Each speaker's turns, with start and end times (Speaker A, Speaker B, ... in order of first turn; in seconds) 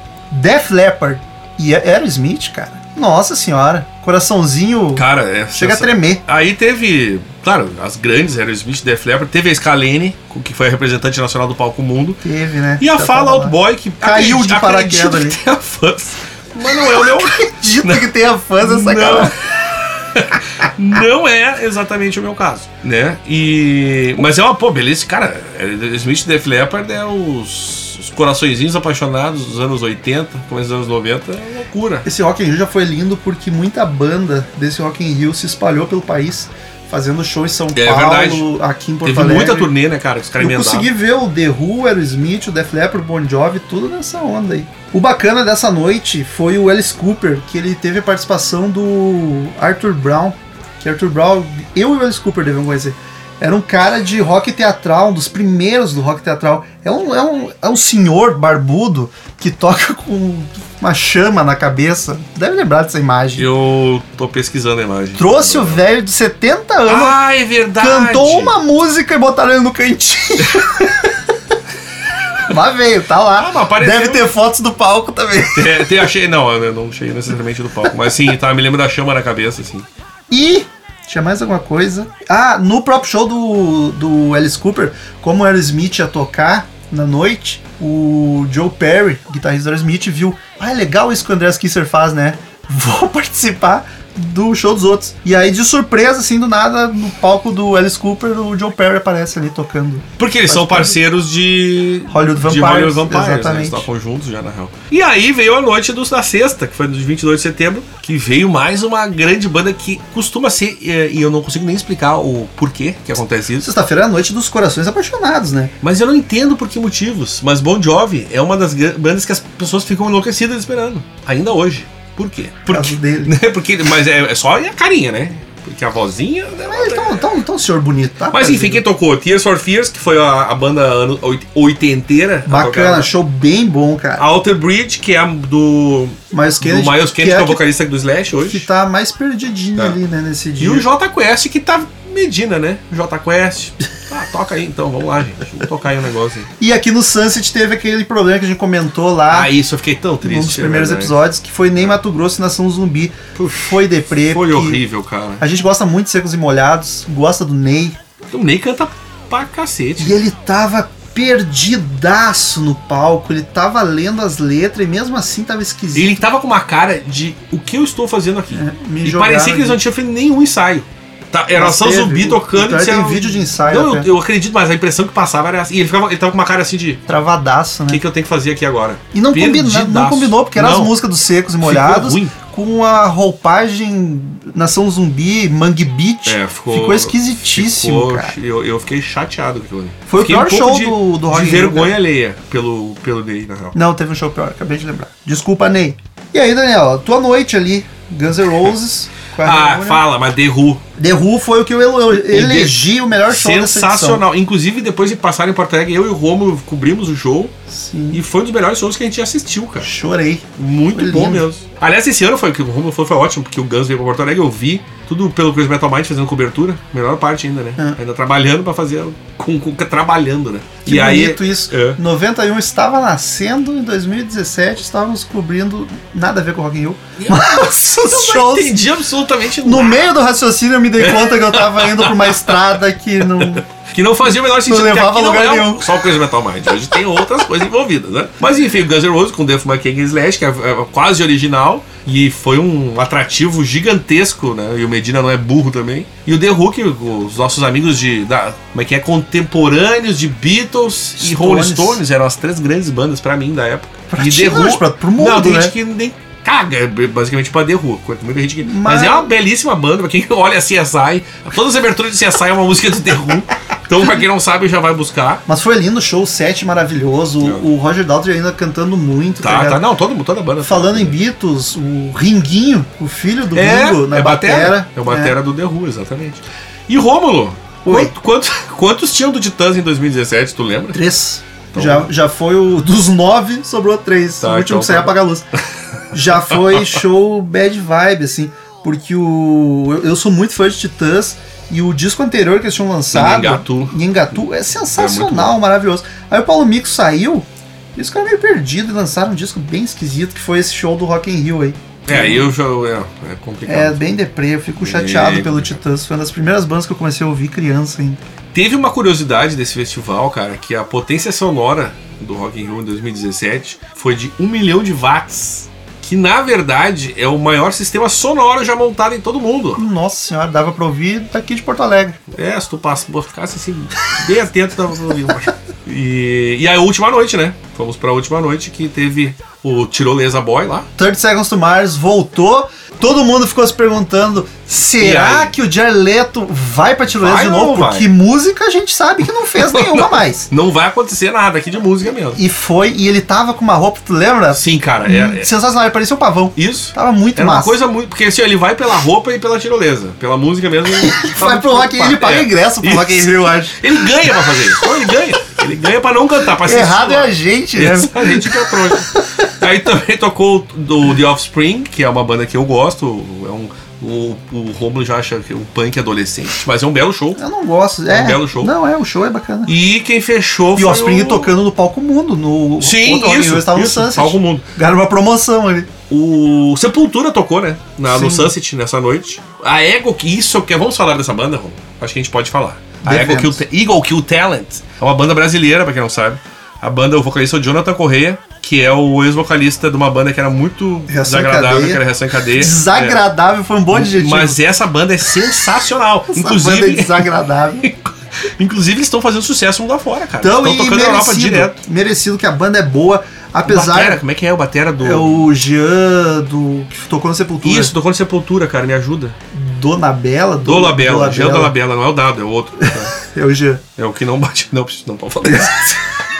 Speaker A: 0.3-6.2, 12.2-15.4, 16.6-19.3, 32.0-39.7, 40.4-63.5, 65.2-67.2, 67.8-71.1, 72.5-76.1, 80.3-101.0, 102.1-103.9, 113.6-115.7, 122.7-123.4, 126.6-128.8, 132.5-134.3, 136.3-137.6, 138.4-140.9, 146.6-149.5, 150.2-154.8, 155.4-158.0, 160.0-166.2, 168.5-169.8, 171.5-174.1, 177.1-178.0, 179.1-188.4, 190.1-192.0, 193.7-200.1, 201.0-204.2, 207.7-208.2, 209.8-211.5, 220.8-228.8, 229.6-233.6, 234.4-235.9, 251.2-252.0, 254.1-255.7, 258.6-259.4, 265.5-269.8, 270.6-275.4, 277.9-278.1, 280.9-285.5, 286.1-302.5, 303.7-308.2, 319.8-322.2, 331.0-340.5, 342.3-347.8, 350.9-354.7, 356.6-359.2, 367.4-369.7, 370.8-375.9, 378.1-378.5, 383.0-383.6, 391.1-394.6, 396.3-397.9, 400.4-404.2, 405.0-407.9, 409.5-411.8, 412.8-413.8
Speaker B: 5.0-12.2, 12.8-32.1, 37.8-38.5, 39.0-40.9, 63.4-65.8, 66.9-68.6, 73.3-74.3, 75.5-79.9, 100.2-113.7, 115.8-127.4, 128.3-133.1, 134.2-138.7, 140.6-146.5, 149.3-151.2, 153.4-155.4, 158.3-160.2, 165.9-177.0, 177.9-181.0, 181.6-182.3, 186.3-193.8, 199.4-200.8, 202.1-207.5, 208.1-209.9, 210.6-222.0, 227.2-230.1, 231.0-232.6, 233.4-265.4, 267.4-267.7, 269.4-271.2, 273.5-281.0, 281.7-282.1, 284.4-285.1, 286.5-286.9, 293.1-294.0, 294.9-295.6, 302.1-304.1, 304.8-305.8, 308.5-319.8, 322.3-330.9, 335.0-335.5, 337.1-338.1, 339.5-342.4, 344.5-345.5, 346.6-367.4, 368.1-368.7, 369.7-371.6, 372.8-374.7, 376.1-393.2, 393.9-401.8, 403.7-405.5, 407.6-409.4, 410.6-413.1, 414.0-416.1